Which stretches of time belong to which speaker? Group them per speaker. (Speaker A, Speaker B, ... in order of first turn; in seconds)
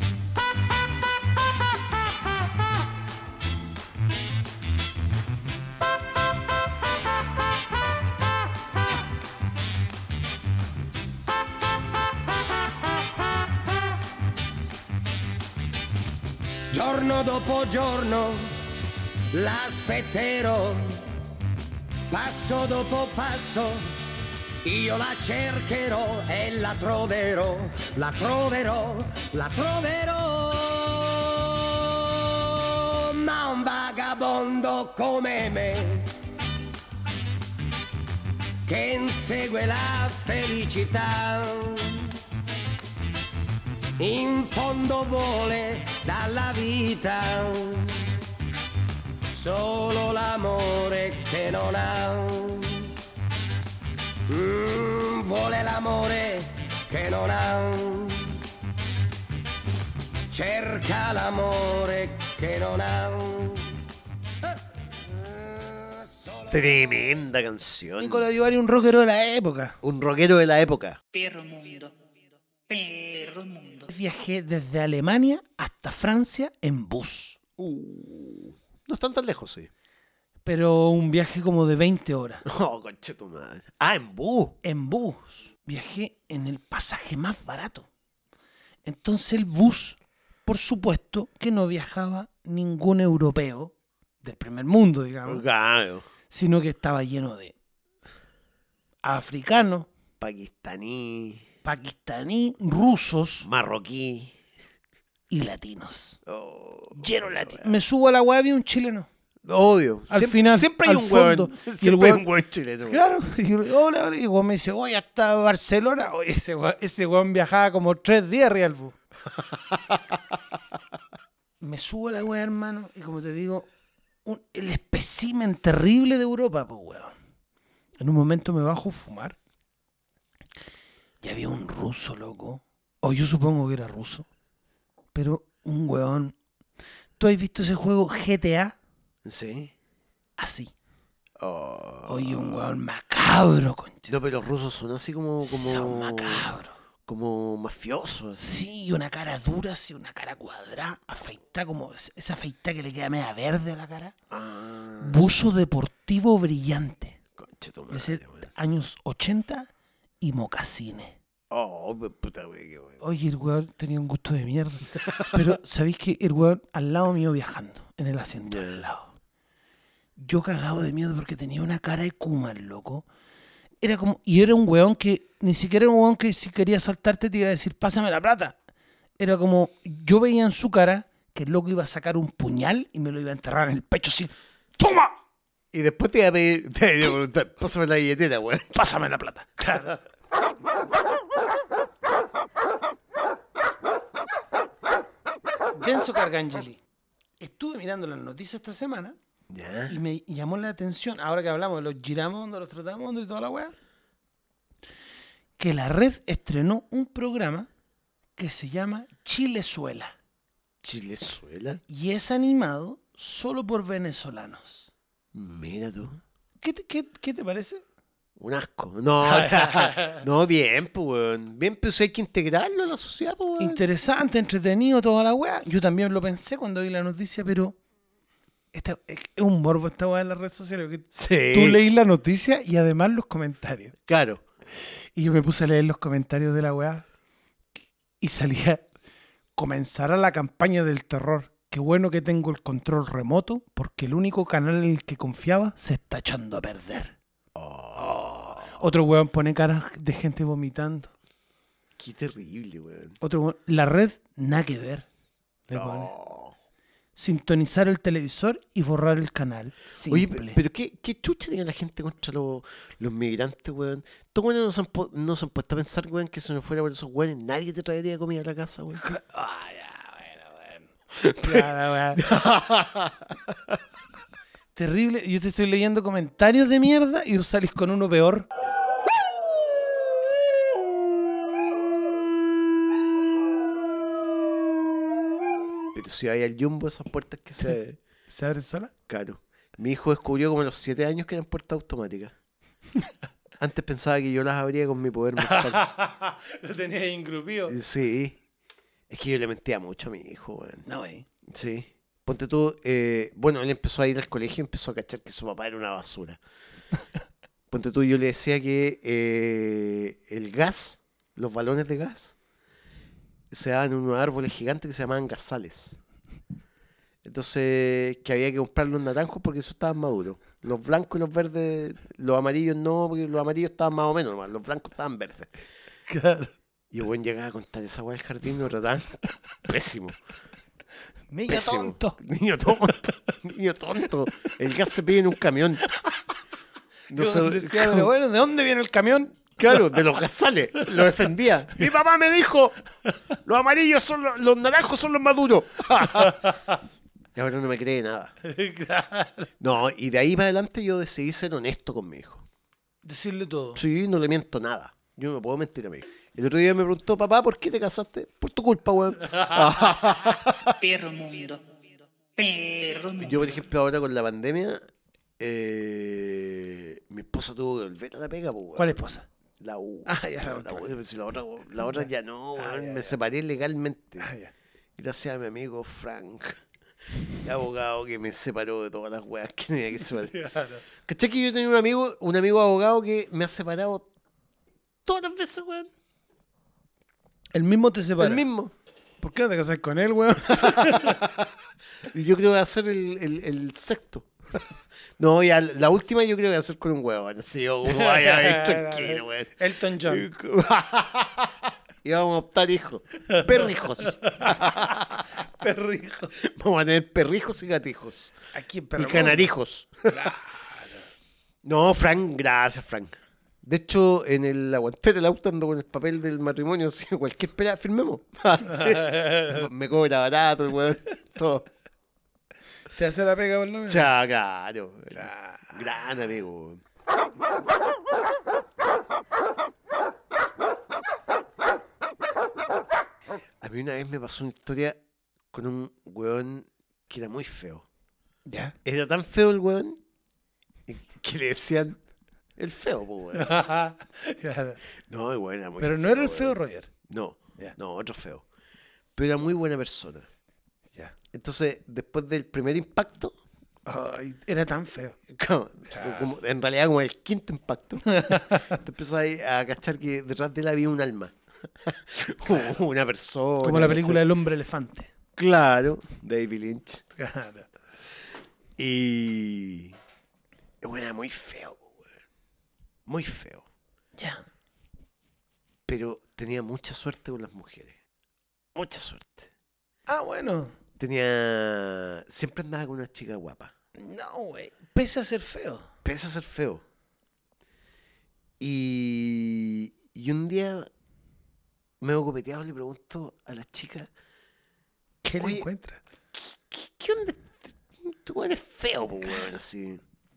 Speaker A: 16.7-18.6, 19.3-21.0, 22.1-23.9, 24.6-36.1, 38.6-42.1, 44.0-48.1, 49.3-52.9, 54.3-58.4, 60.3-63.7, 65.1-66.6
Speaker B: 66.5-68.3, 69.8-71.0, 77.6-79.7, 82.5-84.6, 95.3-96.1, 100.2-101.5, 103.4-104.3, 106.3-107.8, 109.5-113.0, 119.4-120.2, 139.2-139.7, 141.4-142.7, 144.1-146.5, 147.1-148.4, 154.3-155.3, 157.4-158.4, 161.5-163.0, 165.1-165.3, 168.5-168.8, 185.7-188.7, 199.5-200.0, 210.8-211.8, 215.3-216.2, 218.4-223.8, 231.1-231.8, 234.1-234.4, 247.6-248.8, 252.0-253.2, 255.7-256.6, 260.1-269.0, 271.2-273.8, 285.9-288.0, 289.1-292.4, 293.6-295.8, 297.7-298.4, 299.1-300.9, 301.4-306.4, 307.7-312.4, 313.5-316.0, 317.2-325.5, 326.9-330.2, 331.5-335.8, 337.1-338.1, 339.6-342.8, 343.5-346.6, 347.4-348.4, 349.6-352.4, 353.8-360.8, 363.2-364.8, 365.4-369.0, 369.6-374.3, 375.0-376.6, 377.4-380.4, 381.0-384.1, 385.1-385.9, 388.2-388.7, 390.6-391.5, 392.0-394.6, 395.2-405.4, 406.4-408.3, 409.0-410.3, 411.6-421.7, 423.9-426.8, 433.6-435.0, 435.5-437.9, 438.9-440.0, 440.9-442.0, 442.6-443.5, 445.1-448.4, 449.1-450.3, 451.3-453.4, 455.3-464.2, 465.4-467.0, 468.8-470.0, 470.8-472.1, 473.1-473.7, 475.9-478.0, 478.8-479.5, 481.0-483.7, 486.0-486.8, 488.6-490.9, 492.0-494.1, 495.4-495.7, 496.4-500.0
Speaker C: 68.0-69.8, 73.9-77.4, 80.5-82.4, 84.6-87.9, 88.8-95.5, 96.3-97.5, 99.0-99.9, 101.7-103.5, 105.3-106.2, 107.0-109.1, 110.1-112.2, 112.8-119.0, 121.6-123.7, 124.2-127.1, 128.0-129.4, 131.2-134.3, 135.1-136.3, 137.2-138.8, 140.4-140.7, 142.1-144.1, 145.4-146.8, 148.4-154.2, 155.0-157.2, 157.9-161.2, 163.0-169.1, 170.2-173.1, 173.8-178.6, 179.2-185.1, 188.7-190.0, 195.7-196.8, 197.4-199.2, 199.9-203.7, 205.6-207.7, 208.4-210.2, 211.9-214.9, 216.6-217.8, 219.2-220.1, 223.6-227.8, 228.7-233.9, 235.2-237.1, 238.2-238.8, 239.6-247.2, 248.0-251.1, 253.2-255.1, 255.7-256.1, 257.2-260.6, 268.9-272.3, 274.8-278.5, 288.3-288.9, 295.4-297.8, 300.9-301.3, 326.1-326.5, 331.3-332.2, 337.1-339.5, 348.4-349.5, 353.1-353.8, 368.8-369.3, 370.1-370.9, 371.8-373.1, 374.2-374.5, 380.3-380.8, 387.5-388.4, 389.2-391.2, 397.9-400.3, 403.3-404.7, 405.6-406.4, 408.5-409.5, 410.1-411.0, 418.7-419.6, 422.9-424.1, 425.1-425.8, 438.5-438.8, 443.3-444.8, 445.8-446.9, 453.9-455.2, 455.9-456.3, 458.1-458.8, 463.6-465.1, 467.1-467.7, 474.2-474.4, 480.1-480.8, 484.0-485.9, 495.2-496.0
Speaker D: 71.1-72.0, 72.7-73.9, 360.7-361.6, 362.4-363.5